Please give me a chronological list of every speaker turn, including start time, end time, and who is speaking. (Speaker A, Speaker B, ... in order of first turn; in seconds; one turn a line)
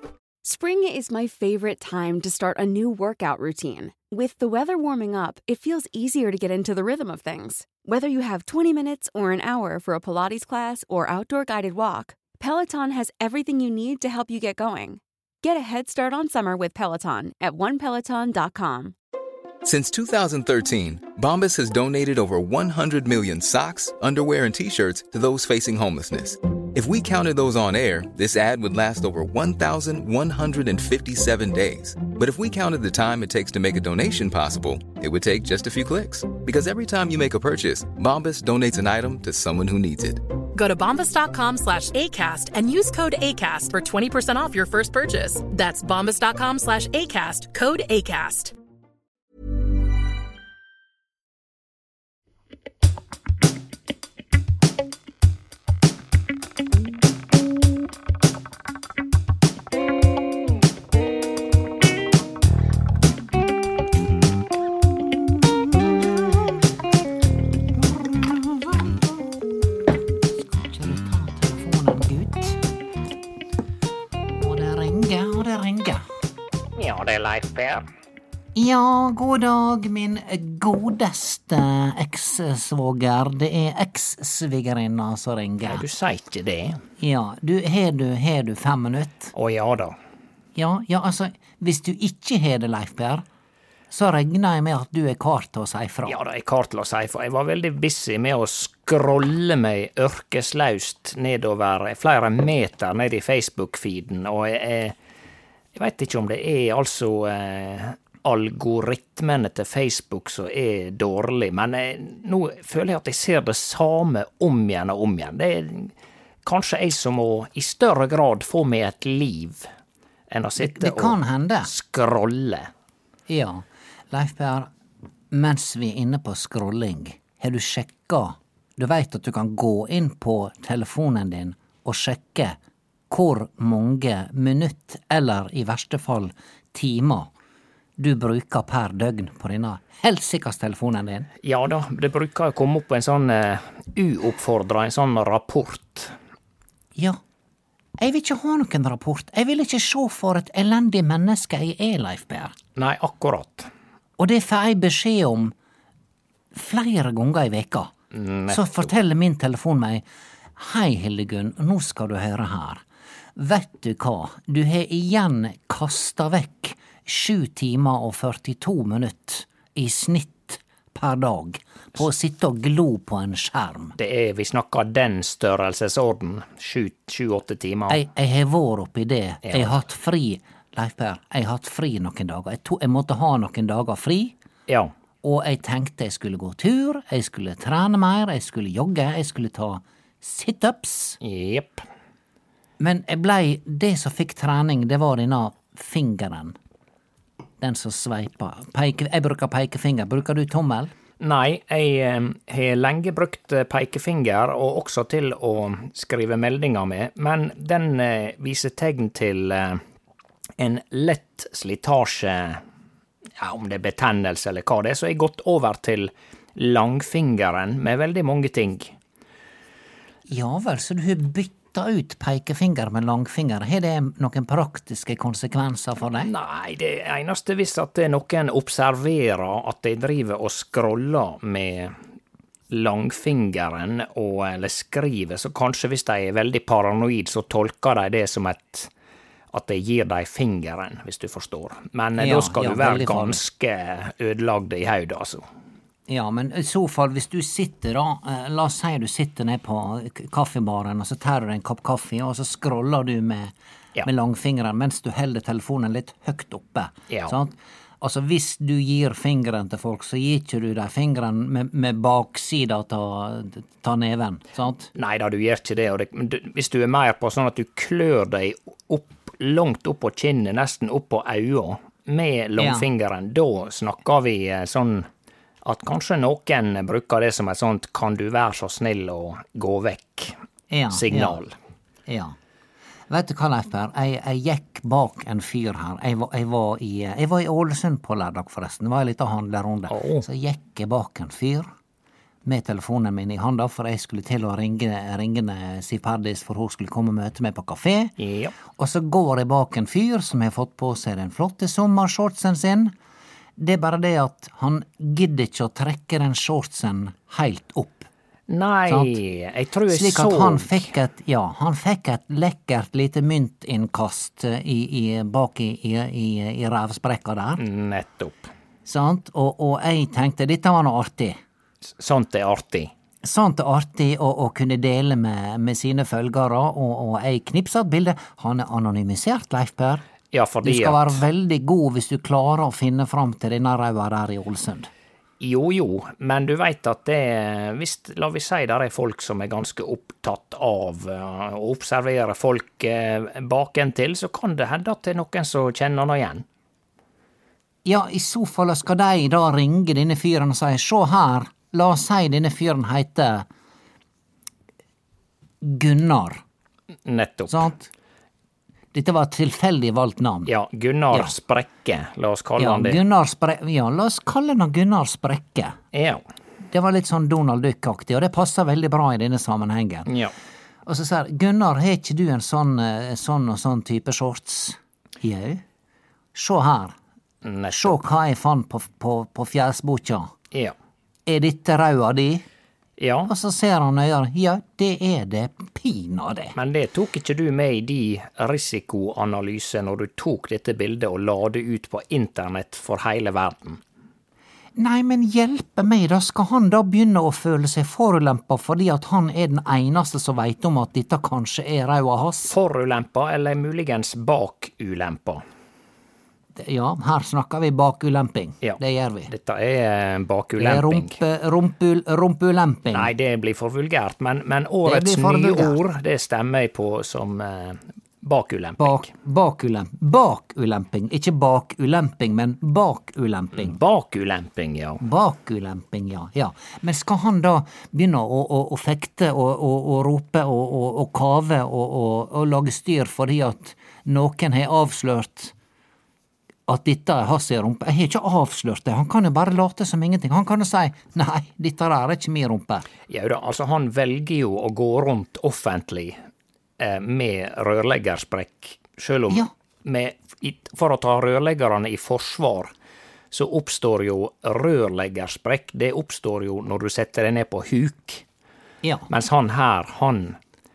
Speaker A: 0.4-18.9
Speaker B: 19.6-40.2
Speaker C: 40.5-48.5
Speaker D: 65.0-66.7
Speaker D: 67.7-69.6
Speaker D: 70.3-72.6
Speaker D: 74.4-76.0
Speaker E: 76.8-77.9
Speaker D: 78.5-85.9
Speaker E: 85.6-86.8
Speaker D: 87.0-89.3
Speaker E: 89.3-90.0
Speaker D: 90.5-93.2
Speaker D: 93.9-96.2
Speaker E: 96.1-105.0
Speaker E: 105.8-115.9
Speaker E: 116.5-119.7
Speaker E: 120.3-122.7
Speaker D: 120.6-121.7
Speaker D: 123.3-124.7
Speaker D: 125.3-132.6
Speaker D: 133.1-137.3
Speaker D: 138.0-141.3
Speaker E: 141.4-146.1
Speaker D: 148.0-152.6
Speaker E: 152.8-153.7
Speaker D: 154.2-155.5
Speaker D: 156.5-157.9
Speaker E: 158.1-158.8
Speaker D: 158.5-160.0
Speaker D: 160.6-162.8
Speaker D: 163.4-173.9
Speaker E: 174.0-178.0
Speaker D: 177.9-184.4
Speaker E: 179.4-179.8
Speaker D: 185.2-191.2
Speaker E: 191.2-191.8
Speaker D: 192.8-196.6
Speaker D: 197.6-200.9
Speaker E: 201.2-209.8
Speaker E: 210.6-212.6
Speaker E: 213.4-218.9
Speaker D: 220.3-226.3
Speaker E: 226.2-231.9
Speaker E: 232.7-238.9
Speaker E: 239.5-245.4
Speaker D: 242.2-243.4
Speaker D: 246.1-264.9
Speaker E: 257.1-257.4
Speaker E: 264.9-275.1
Speaker D: 272.6-272.9
Speaker E: 275.6-280.4
Speaker D: 280.7-281.4
Speaker E: 280.9-281.6
Speaker D: 282.1-282.4
Speaker D: 283.1-291.7
Speaker E: 289.9-290.2
Speaker D: 292.4-298.1
Speaker E: 298.2-298.6
Speaker D: 298.7-302.9
Speaker D: 303.6-308.1
Speaker E: 308.5-310.9
Speaker D: 308.9-309.2
Speaker D: 309.9-317.6
Speaker E: 317.6-318.5
Speaker D: 318.9-321.4
Speaker E: 322.0-322.9
Speaker D: 323.2-330.0
Speaker E: 330.3-331.2
Speaker D: 330.6-334.9
Speaker E: 335.4-346.4
Speaker D: 347.9-353.5
Speaker D: 355.6-356.4
Speaker E: 357.1-357.7
Speaker D: 357.5-357.9
Speaker D: 358.9-360.5
Speaker E: 360.5-363.0
Speaker D: 362.6-365.8
Speaker E: 365.9-366.2
Speaker D: 366.7-370.1
Speaker E: 370.1-370.3
Speaker D: 370.9-375.6
Speaker D: 376.3-376.9
Speaker E: 377.4-378.0
Speaker D: 377.7-380.3
Speaker D: 381.3-382.4
Speaker E: 383.0-383.3
Speaker D: 383.3-386.6
Speaker E: 386.6-393.8
Speaker D: 394.8-402.5
Speaker E: 402.5-405.4
Speaker D: 406.6-409.3
Speaker E: 408.6-411.2
Speaker D: 410.6-413.1
Speaker E: 412.9-419.1
Speaker D: 414.9-415.8
Speaker D: 418.8-423.8
Speaker E: 423.5-425.0
Speaker D: 425.0-435.5
Speaker D: 436.7-442.9
Speaker E: 443.1-446.2
Speaker E: 446.8-452.7
Speaker E: 453.3-458.2
Speaker D: 458.8-459.1
Speaker E: 459.1-460.4